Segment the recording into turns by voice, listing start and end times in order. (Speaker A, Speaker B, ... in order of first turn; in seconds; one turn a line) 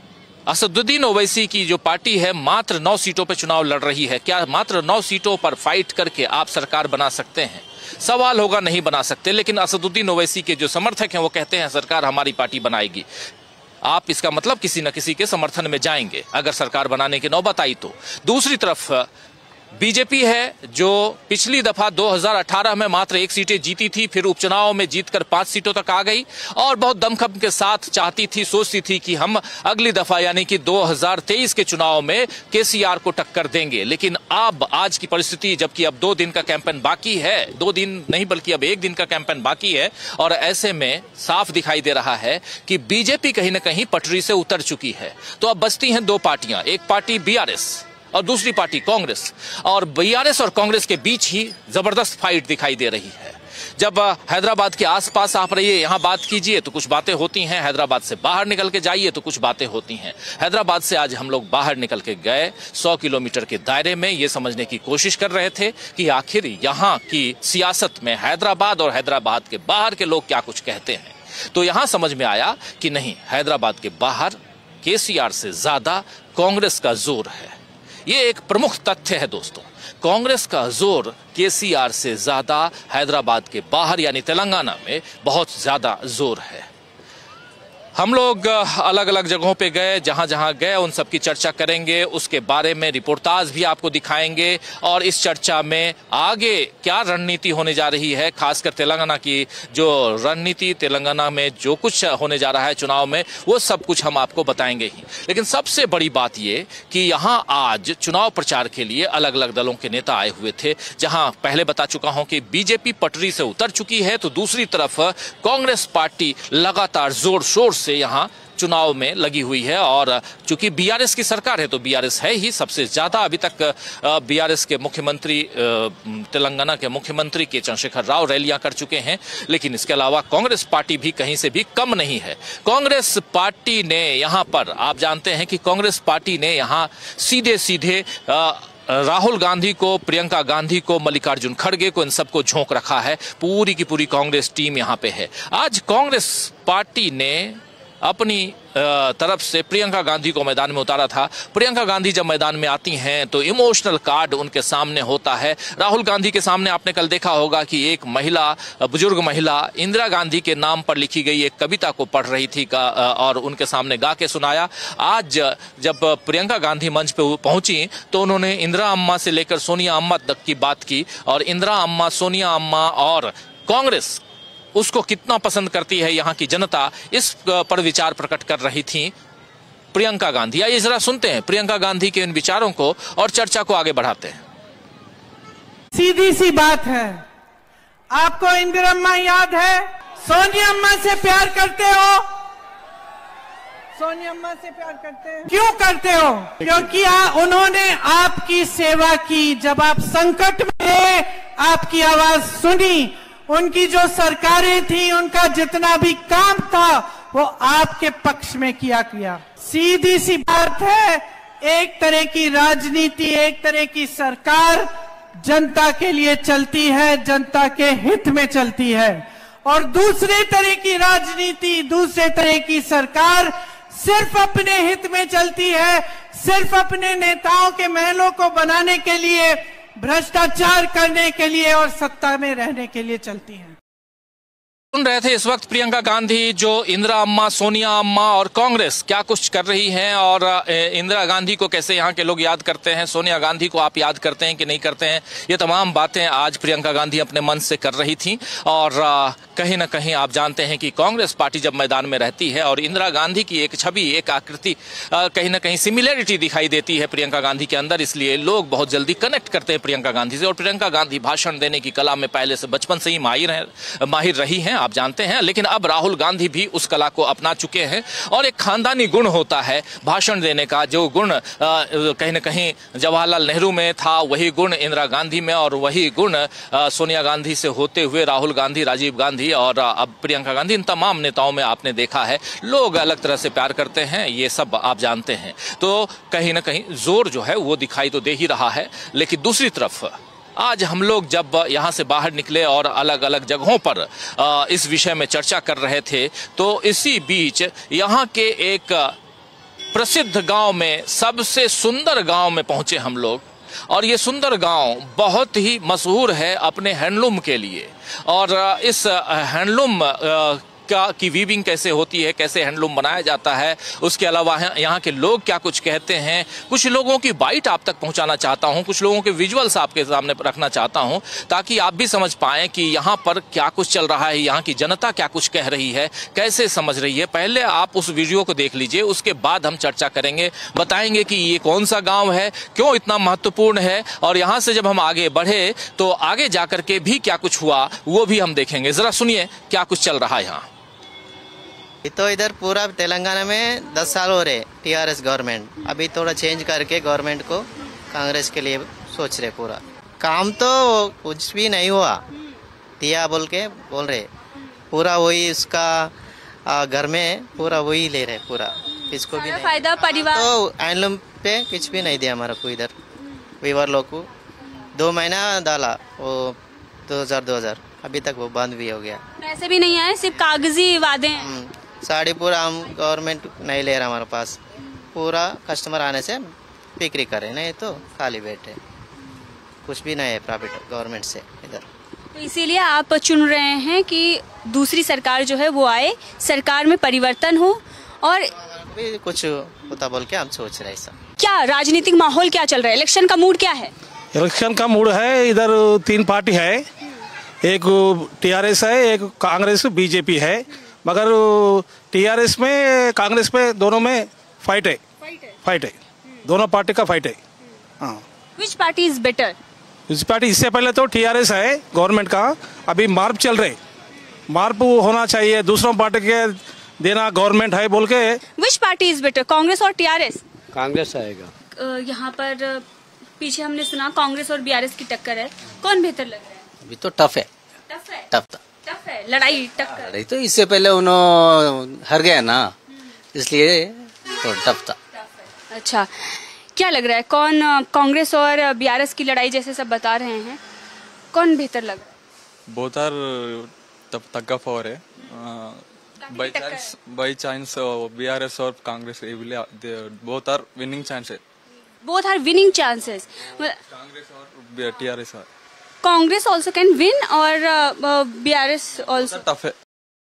Speaker A: 0.5-13.1
Speaker A: 13.8-19.1
Speaker A: 19.8-86.7
Speaker A: 88.0-174.2
Speaker A: 174.7-179.1
Speaker A: 179.9-184.4
Speaker B: 185.9-187.2
Speaker B: 188.1-192.3
Speaker B: 194.0-214.9
Speaker B: 215.4-233.7
Speaker A: 234.9-299.1
Speaker A: 299.9-340.7
Speaker C: 342.0-352.2
Speaker C: 353.0-354.3
Speaker C: 354.9-356.1
Speaker C: 356.6-362.9
Speaker D: 359.3-360.5
Speaker C: 363.6-364.3
Speaker C: 364.9-369.2
Speaker D: 369.4-371.5
Speaker C: 371.4-374.6
Speaker C: 375.1-378.8
Speaker C: 379.8-381.9
Speaker D: 382.3-388.5
Speaker C: 388.6-391.1
Speaker D: 391.4-393.9
Speaker E: 394.3-396.9
Speaker E: 397.6-405.0
Speaker E: 405.6-407.4
Speaker D: 408.6-409.6
Speaker E: 410.1-413.8
Speaker E: 414.5-418.4
Speaker D: 418.6-420.4
Speaker F: 420.7-421.5
Speaker D: 421.8-422.8
Speaker D: 423.4-426.6
Speaker F: 426.8-427.5
Speaker D: 427.9-428.2
Speaker F: 428.3-428.6
Speaker D: 428.9-430.1
Speaker F: 429.9-432.7
Speaker F: 433.3-435.0
Speaker D: 435.7-440.6
Speaker D: 441.3-442.0
Speaker G: 442.7-451.4
Speaker D: 452.0-453.8
Speaker G: 453.9-455.4
Speaker D: 456.0-459.4
Speaker G: 459.2-459.7